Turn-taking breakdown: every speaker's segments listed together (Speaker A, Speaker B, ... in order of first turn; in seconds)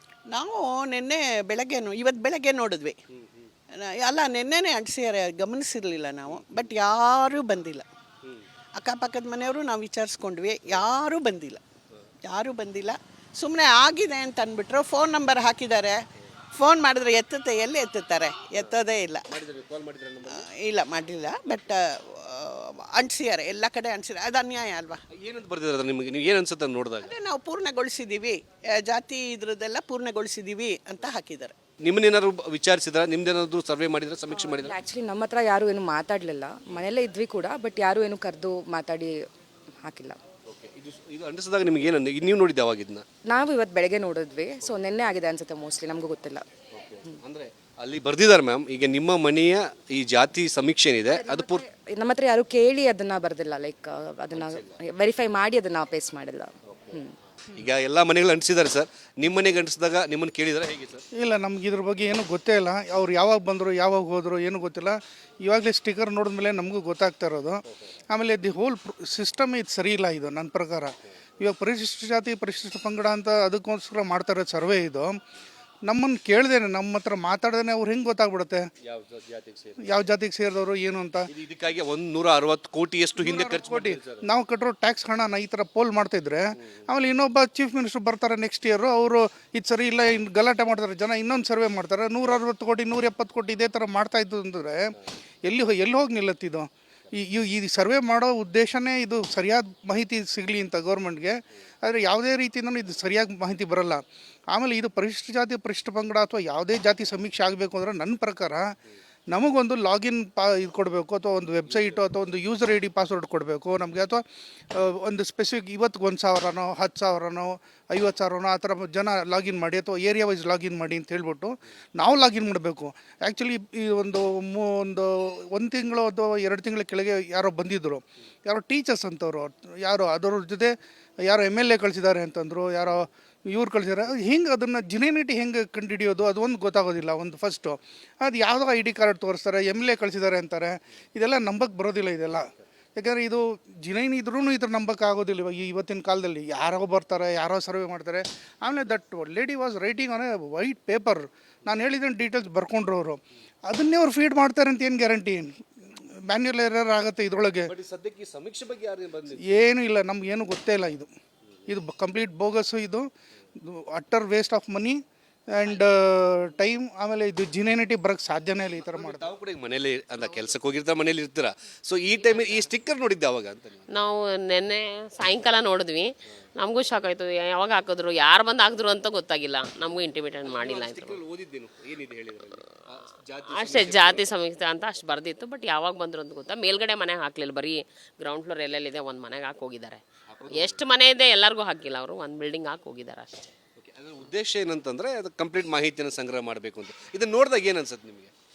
Speaker A: 0.3-3.0, 3.8-7.9, 8.8-11.6, 12.2-16.0, 16.5-19.2, 20.3-25.0, 27.0-31.5
Speaker B: 3.1-3.5, 6.3-6.7, 18.5-20.5, 25.1-27.1, 31.8-34.8, 40.5-43.0, 46.7-51.6, 54.3-54.8, 56.6-61.0, 78.8-79.9, 81.3-84.2, 86.5-86.9, 111.7-112.2, 157.7-159.4, 168.8-173.9, 180.4-184.2, 190.3-190.8, 193.8-198.3
Speaker C: 34.4-39.1, 39.9-40.2, 43.5-46.4, 51.6-56.5
Speaker D: 51.1-51.4, 61.1-75.2, 75.9-78.7, 79.8-81.3, 83.2-94.9, 95.4-108.7, 109.3-130.7, 131.2-157.7, 159.4-161.1, 161.7-163.1, 163.6-165.0, 165.5-169.3
Speaker E: 170.2-170.6, 172.1-172.7, 173.9-181.2, 183.5-193.5